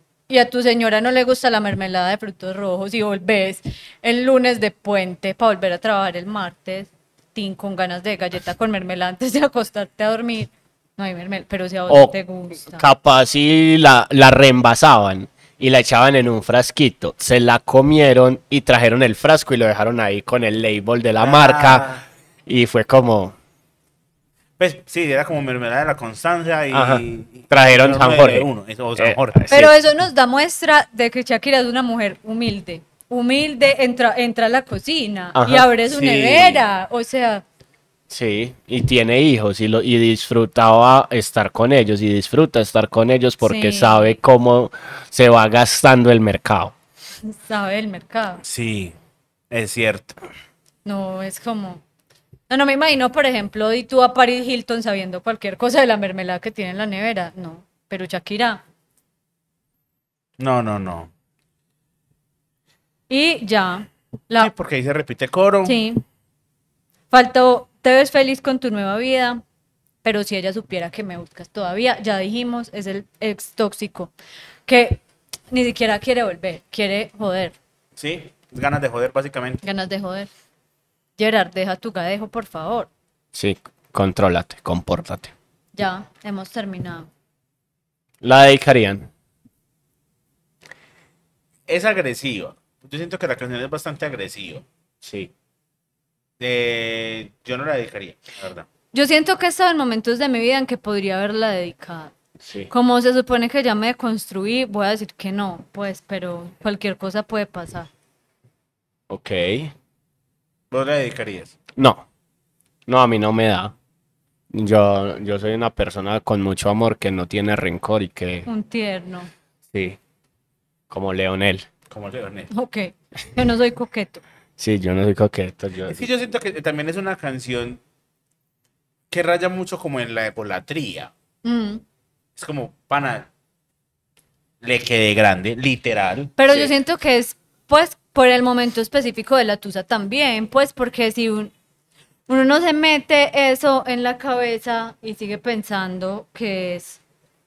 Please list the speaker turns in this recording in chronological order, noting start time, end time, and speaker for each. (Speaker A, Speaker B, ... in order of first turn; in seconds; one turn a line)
Speaker A: 0.3-12.9
Speaker B: 11.9-21.9
Speaker C: 21.2-22.0
Speaker B: 22.5-23.4
Speaker C: 24.6-29.5
Speaker B: 26.7-29.7
Speaker A: 29.5-37.5
Speaker B: 35.4-35.7
Speaker C: 35.9-36.7
Speaker B: 38.1-46.7
Speaker A: 43.4-44.2
Speaker A: 47.2-48.4
Speaker C: 48.4-49.0
Speaker C: 49.5-50.2
Speaker A: 50.9-51.8
Speaker A: 52.5-58.6
Speaker C: 60.4-61.1
Speaker A: 63.1-64.5
Speaker C: 64.4-65.8
Speaker A: 65.7-66.0
Speaker A: 67.1-69.4
Speaker A: 70.0-74.1
Speaker A: 74.7-77.6
Speaker C: 78.0-79.6
Speaker A: 79.6-80.3
Speaker A: 81.2-82.9
Speaker B: 83.3-85.3
Speaker A: 85.8-87.1
Speaker B: 88.2-89.1
Speaker C: 91.7-94.6
Speaker B: 95.0-95.3
Speaker C: 96.4-98.7
Speaker A: 98.9-102.1
Speaker B: 102.4-102.7
Speaker A: 102.7-107.9
Speaker B: 109.1-109.7
Speaker C: 110.7-111.6
Speaker B: 111.8-112.0
Speaker B: 112.9-113.7
Speaker B: 114.5-118.5
Speaker A: 118.5-119.3
Speaker B: 119.7-120.0
Speaker B: 120.9-121.7
Speaker C: 121.9-122.5
Speaker A: 122.5-124.2
Speaker B: 124.6-126.0
Speaker C: 125.9-127.8
Speaker C: 129.1-131.1
Speaker A: 131.4-131.8
Speaker C: 132.4-133.3
Speaker C: 134.6-136.7
Speaker A: 136.4-141.5
Speaker A: 142.3-147.0